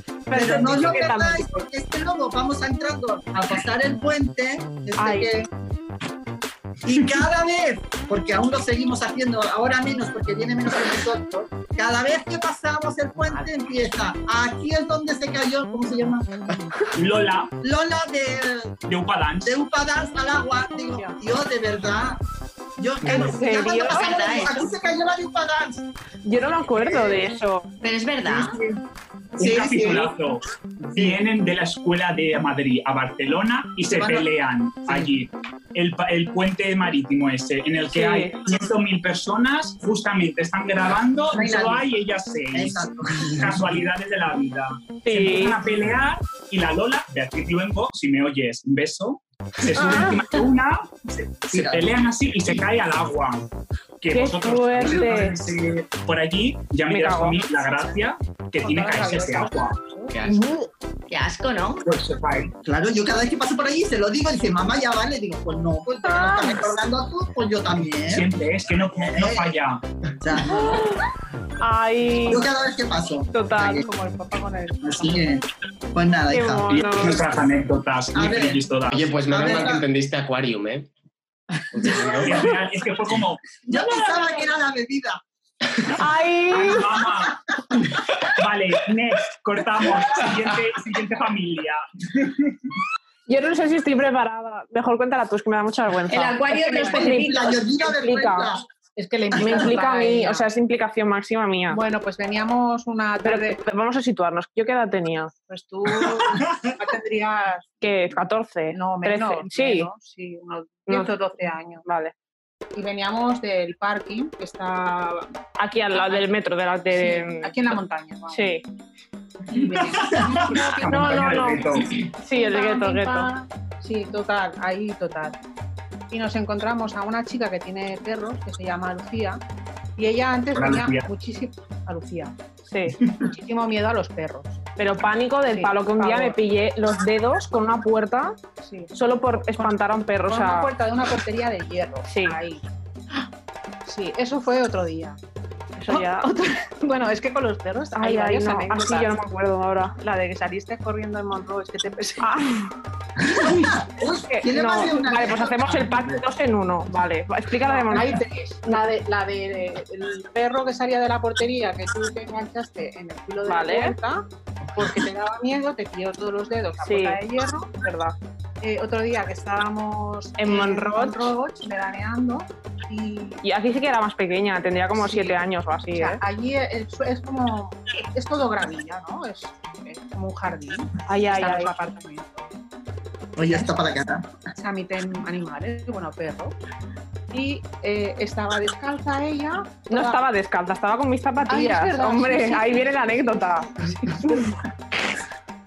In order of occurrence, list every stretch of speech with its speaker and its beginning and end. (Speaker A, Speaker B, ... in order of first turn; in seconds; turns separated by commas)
Speaker A: 0.3-1.6, Speaker B: 0.3-5.5, Speaker A: 5.0-5.4, Speaker B: 6.8-16.3, Speaker C: 17.0-17.5, Speaker B: 17.6-18.8, Speaker C: 18.9-19.6, Speaker B: 19.4-22.2, Speaker B: 22.8-25.9, Speaker A: 23.0-24.2, Speaker D: 23.9-24.7, Speaker A: 26.2-27.7, Speaker D: 27.8-28.4, Speaker B: 28.2-28.6, Speaker C: 28.4-28.8, Speaker B: 29.4-30.2, Speaker C: 29.4-30.4, Speaker B: 30.8-31.3, Speaker C: 30.9-50.9, Speaker B: 33.9-34.3, Speaker A: 37.9-38.4, Speaker B: 41.3-42.0, Speaker B: 42.5-43.6, Speaker A: 45.1-45.6, Speaker A: 49.8-50.2, Speaker C: 51.4-53.5, Speaker B: 51.5-52.6, Speaker C: 54.0-59.8, Speaker A: 54.1-55.4, Speaker A: 56.9-57.4, Speaker E: 58.6-60.2, Speaker F: 60.1-60.5, Speaker A: 60.2-60.7, Speaker D: 61.1-61.8, Speaker C: 61.9-62.5, Speaker B: 62.6-68.3, Speaker A: 66.0-66.8, Speaker C: 68.1-69.8, Speaker B: 69.0-69.6, Speaker B: 70.2-70.8, Speaker A: 70.5-71.1, Speaker A: 71.6-72.5, Speaker B: 72.3-73.8, Speaker A: 73.3-73.8, Speaker E: 73.8-75.2, Speaker B: 74.8-77.4, Speaker A: 76.3-77.3, Speaker C: 76.7-79.1, Speaker B: 78.1-78.7, Speaker F: 78.9-80.9, Speaker B: 79.2-79.8, Speaker F: 81.7-82.5, Speaker C: 82.2-84.2, Speaker B: 83.6-85.2, Speaker A: 86.0-87.0, Speaker C: 86.5-92.8, Speaker A: 93.3-98.6, Speaker D: 96.1-97.6, Speaker B: 96.9-98.6, Speaker E: 99.0-100.5, Speaker A: 99.3-101.8, Speaker B: 99.4-99.7, Speaker E: 101.7-103.6, Speaker A: 103.2-105.3, Speaker E: 105.5-107.6, Speaker A: 107.8-109.9, Speaker E: 108.7-111.8, Speaker A: 110.9-111.1, Speaker A: 111.9-112.1, Speaker E: 112.8-115.1, Speaker A: 115.6-117.7, Speaker E: 116.9-118.5, Speaker A: 118.3-118.6, Speaker E: 119.5-120.8, Speaker C: 119.6-122.0, Speaker A: 120.5-123.3, Speaker E: 122.3-125.3, Speaker E: 126.1-129.4, Speaker E: 130.0-132.3, Speaker C: 130.5-131.1, Speaker A: 132.7-133.0, Speaker E: 133.2-134.5, Speaker A: 134.8-138.4, Speaker E: 135.5-136.4, Speaker E: 138.6-138.9, Speaker A: 138.9-140.7, Speaker E: 140.3-142.6, Speaker A: 142.1-142.4, Speaker E: 143.9-145.2, Speaker A: 145.8-146.4, Speaker E: 145.9-146.2, Speaker E: 146.8-149.1, Speaker A: 148.0-150.2, Speaker E: 150.2-152.2, Speaker A: 152.2-152.7, Speaker B: 153.2-156.2, Speaker A: 154.2-158.1, Speaker E: 157.8-164.2, Speaker A: 163.5-163.9, Speaker E: 164.8-167.8, Speaker A: 166.8-167.2, Speaker A: 167.8-168.2, Speaker E: 168.6-173.4, Speaker A: 170.4-171.3, Speaker A: 173.4-176.2, Speaker E: 175.0-175.4, Speaker E: 175.9-182.4, Speaker A: 181.1-181.7, Speaker B: 183.4-184.3, Speaker E: 183.4-183.7, Speaker E: 184.6-186.5, Speaker E: 187.3-190.2, Speaker A: 189.9-193.7, Speaker E: 191.5-192.8, Speaker E: 193.9-194.3, Speaker A: 194.2-194.5